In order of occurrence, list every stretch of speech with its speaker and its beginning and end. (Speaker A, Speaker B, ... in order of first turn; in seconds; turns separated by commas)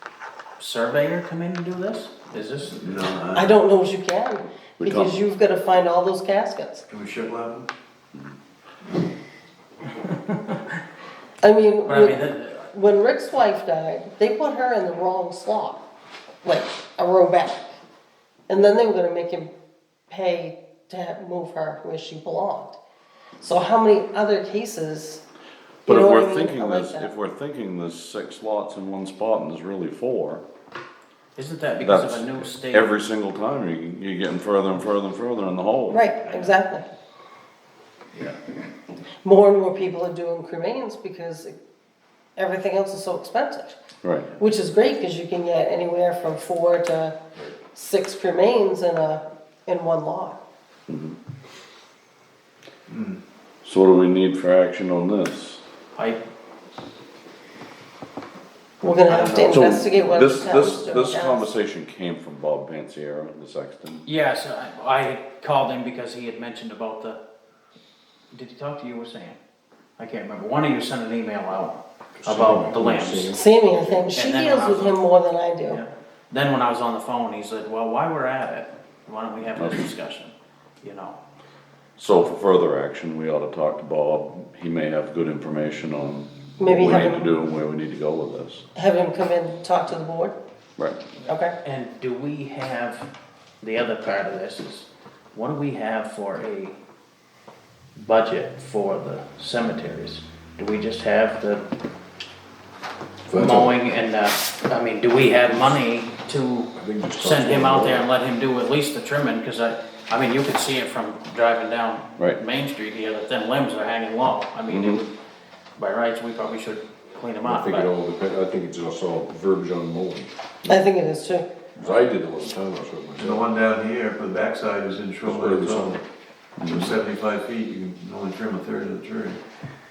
Speaker A: 0.6-2.8, Speaker B: 2.8-3.6, Speaker C: 3.3-6.8, Speaker D: 4.8-5.2, Speaker B: 6.9-7.7, Speaker A: 10.0-10.6, Speaker C: 11.4-15.8, Speaker A: 11.8-12.7, Speaker C: 16.4-17.7, Speaker C: 18.5-19.5, Speaker C: 20.1-22.8, Speaker C: 23.4-25.2, Speaker C: 25.9-27.1, Speaker D: 25.9-30.4, Speaker A: 31.4-33.0, Speaker D: 31.8-36.1, Speaker C: 35.9-36.9, Speaker A: 36.3-36.5, Speaker A: 38.1-38.4, Speaker C: 39.2-41.5, Speaker C: 42.4-43.8, Speaker D: 44.0-44.3, Speaker C: 44.4-50.4, Speaker D: 50.9-51.2, Speaker B: 52.9-53.2, Speaker D: 53.6-55.6, Speaker A: 56.0-56.2, Speaker C: 58.8-61.5, Speaker D: 59.1-64.1, Speaker A: 64.0-67.2, Speaker A: 68.3-69.4, Speaker A: 70.0-73.4, Speaker E: 72.2-74.0, Speaker C: 73.3-75.8, Speaker A: 74.1-75.0, Speaker A: 75.7-81.2, Speaker D: 79.6-79.9, Speaker D: 82.0-88.7, Speaker C: 86.6-87.3, Speaker C: 88.8-90.4, Speaker D: 90.8-91.0, Speaker A: 91.2-93.1, Speaker C: 91.3-91.5, Speaker A: 93.6-96.8, Speaker A: 98.0-101.7, Speaker E: 103.3-103.8, Speaker A: 103.3-115.1, Speaker E: 105.4-105.7, Speaker E: 106.8-108.1, Speaker D: 114.7-115.0, Speaker A: 115.8-117.9, Speaker E: 117.4-120.7, Speaker C: 120.7-121.5, Speaker E: 121.8-123.5, Speaker B: 123.2-126.0, Speaker E: 125.3-126.0, Speaker D: 126.6-127.0, Speaker B: 126.6-129.4